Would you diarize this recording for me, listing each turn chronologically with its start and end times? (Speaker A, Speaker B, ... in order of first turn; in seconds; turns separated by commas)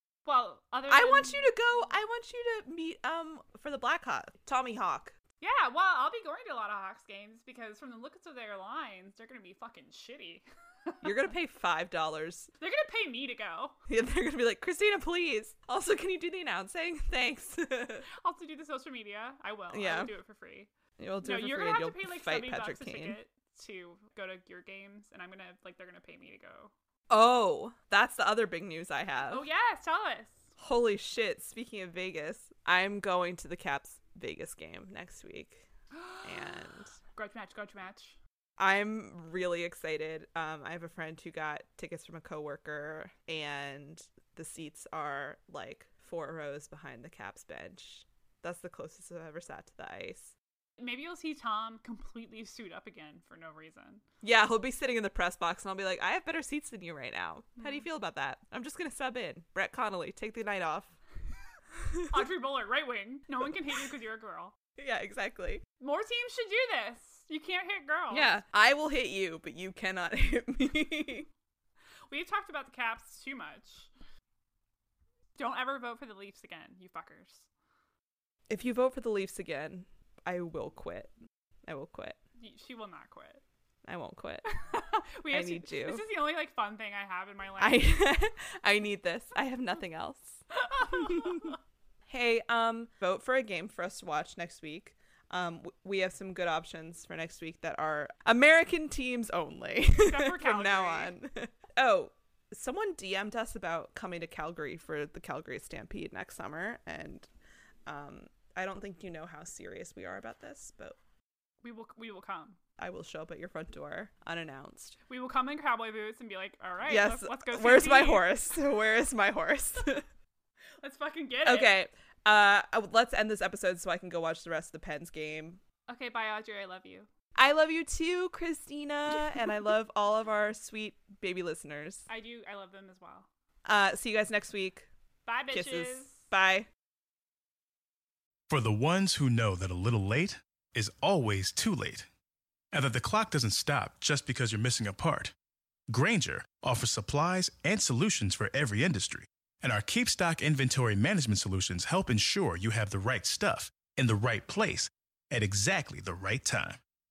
Speaker A: 0.2-1.6, Speaker B: 0.9-5.2, Speaker A: 5.4-11.1, Speaker B: 11.0-12.5, Speaker A: 12.6-13.8, Speaker B: 13.9-18.1, Speaker A: 18.2-20.7, Speaker B: 19.7-20.1, Speaker B: 21.0-23.2, Speaker A: 21.2-26.7, Speaker B: 27.1-29.5, Speaker A: 29.3-30.5, Speaker B: 30.6-35.7, Speaker A: 35.9-38.2, Speaker B: 36.2-37.0, Speaker B: 38.6-50.3, Speaker A: 50.8-54.0, Speaker B: 54.2-61.0, Speaker A: 57.6-57.9, Speaker B: 61.8-62.2, Speaker A: 62.1-64.5, Speaker B: 64.8-65.6, Speaker A: 65.8-68.3, Speaker B: 68.1-71.3, Speaker A: 72.1-73.9, Speaker A: 75.4-77.5, Speaker B: 78.5-81.1, Speaker B: 81.7-82.2, Speaker A: 82.4-83.4, Speaker B: 83.8-84.5, Speaker A: 84.5-87.9, Speaker B: 85.3-86.0, Speaker B: 87.6-91.6, Speaker A: 90.5-91.5, Speaker B: 92.1-107.3, Speaker A: 100.0-101.1, Speaker B: 107.9-111.0, Speaker A: 111.6-112.6, Speaker B: 112.8-115.0, Speaker A: 115.1-118.3, Speaker B: 116.9-120.0, Speaker A: 120.8-121.7, Speaker B: 121.4-125.6, Speaker A: 125.9-127.1, Speaker B: 127.4-132.1, Speaker A: 132.1-133.3, Speaker B: 133.7-134.9, Speaker A: 135.3-136.3, Speaker B: 135.5-136.7, Speaker C: 138.5-142.1, Speaker C: 142.7-145.3, Speaker C: 145.9-156.8